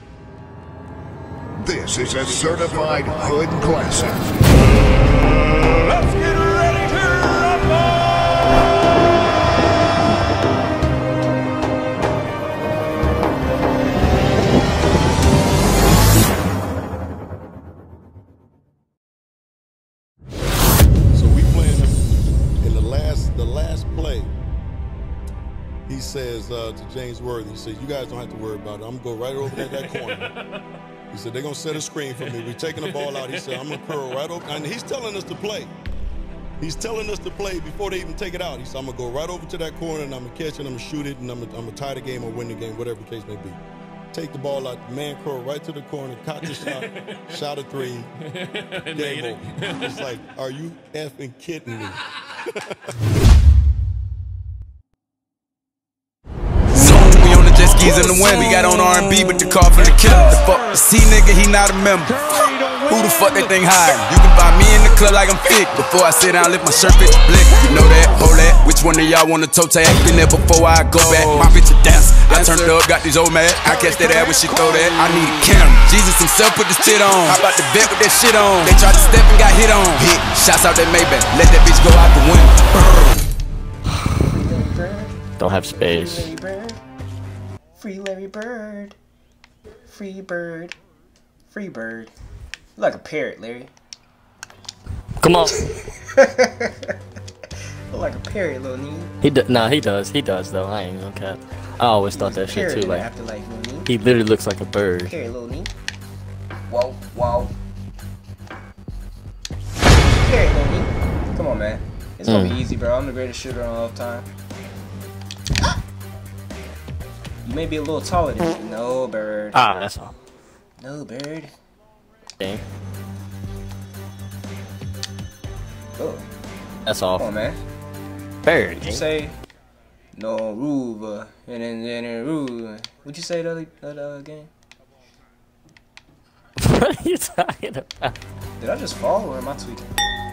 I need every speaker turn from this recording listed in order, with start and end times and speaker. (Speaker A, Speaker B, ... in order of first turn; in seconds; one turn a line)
Speaker A: 1.6-4.2
Speaker B: 2.4-3.4
Speaker C: 6.0-7.5
Speaker B: 21.1-22.0
Speaker B: 22.6-24.3
Speaker B: 25.9-30.4
Speaker C: 29.6-30.1
Speaker B: 31.1-35.7
Speaker C: 32.9-33.8
Speaker B: 36.6-43.6
Speaker B: 44.1-48.1
Speaker C: 46.5-46.9
Speaker C: 48.4-49.9
Speaker B: 48.9-52.0
Speaker D: 56.8-62.3
Speaker C: 57.7-60.7
Speaker C: 62.2-63.6
Speaker D: 62.9-83.3
Speaker C: 67.6-68.3
Speaker C: 71.1-71.5
Speaker C: 72.3-72.7
Speaker C: 73.6-75.5
Speaker C: 76.9-77.4
Speaker E: 84.3-85.2
Speaker F: 85.4-86.3
Speaker E: 85.7-86.8
Speaker E: 87.8-89.0
Speaker E: 89.9-90.7
Speaker E: 91.5-92.1
Speaker E: 92.8-93.7
Speaker F: 95.2-95.6
Speaker E: 95.7-96.9
Speaker E: 97.9-99.1
Speaker F: 99.2-103.1
Speaker E: 102.1-103.9
Speaker F: 103.9-105.1
Speaker E: 105.0-105.7
Speaker E: 106.7-107.5
Speaker E: 110.0-114.3
Speaker F: 112.2-112.6
Speaker E: 117.5-119.6
Speaker F: 119.5-120.1
Speaker E: 120.8-121.5
Speaker E: 126.0-126.3
Speaker F: 126.8-127.2
Speaker E: 127.2-127.6
Speaker F: 128.4-129.1
Speaker E: 128.7-129.4
Speaker E: 130.1-134.5
Speaker F: 136.6-138.1
Speaker E: 138.6-139.9